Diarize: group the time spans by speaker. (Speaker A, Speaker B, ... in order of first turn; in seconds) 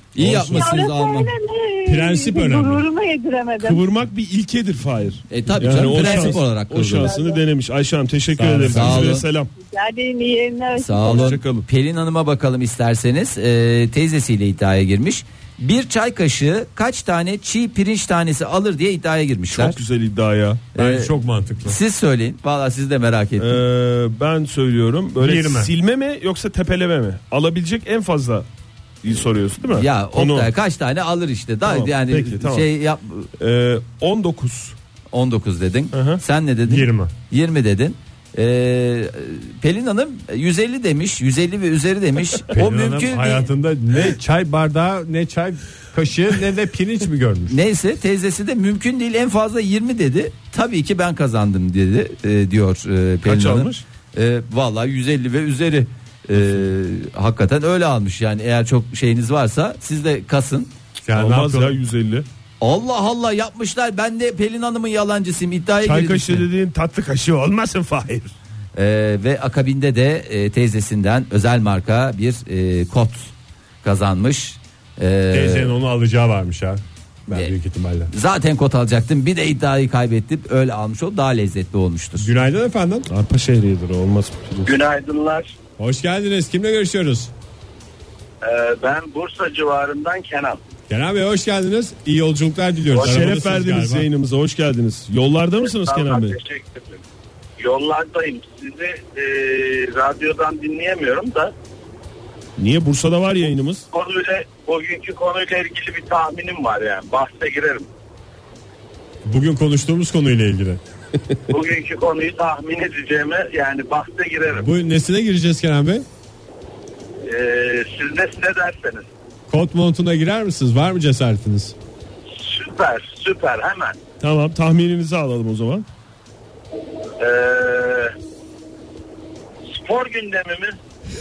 Speaker A: 0.1-1.3, 5.3-7.1, 8.7-9.2, 10.8-19.8, 20.8-21.1, 21.6-23.6, 29.7-33.3, 35.1-43.5, 47.5-60.7, 62.6-66.5, 68.8-73.3, 73.8-75.7, 78.1-82.3
Speaker B: 0.2-0.8, 1.8-2.8, 8.3-9.1, 20.8-21.8, 25.2-25.7, 36.7-37.1, 42.5-47.6, 61.0-61.8, 75.3-78.1, 82.2-83.1, 85.8-87.3, 90.9-94.1, 109.2-110.8, 114.5-116.0, 119.5-121.7
Speaker C: 0.5-3.8, 6.0-6.3, 7.0-7.4, 9.6-11.4
Speaker D: 3.6-9.5, 11.0-11.7, 19.5-20.6, 23.4-28.4, 29.0-30.5, 31.6-32.7, 33.4-34.8, 35.9-36.2, 53.2-53.8, 61.1-62.2, 65.8-68.3, 83.1-84.7, 93.0-96.4, 102.6-103.8, 124.2-125.8
Speaker E: 84.6-85.5, 88.4-90.6, 92.9-93.2, 95.6-97.0, 97.6-101.5, 103.9-107.9, 111.5-114.7, 117.2-119.1, 122.3-124.0, 127.2-128.1, 129.7-130.8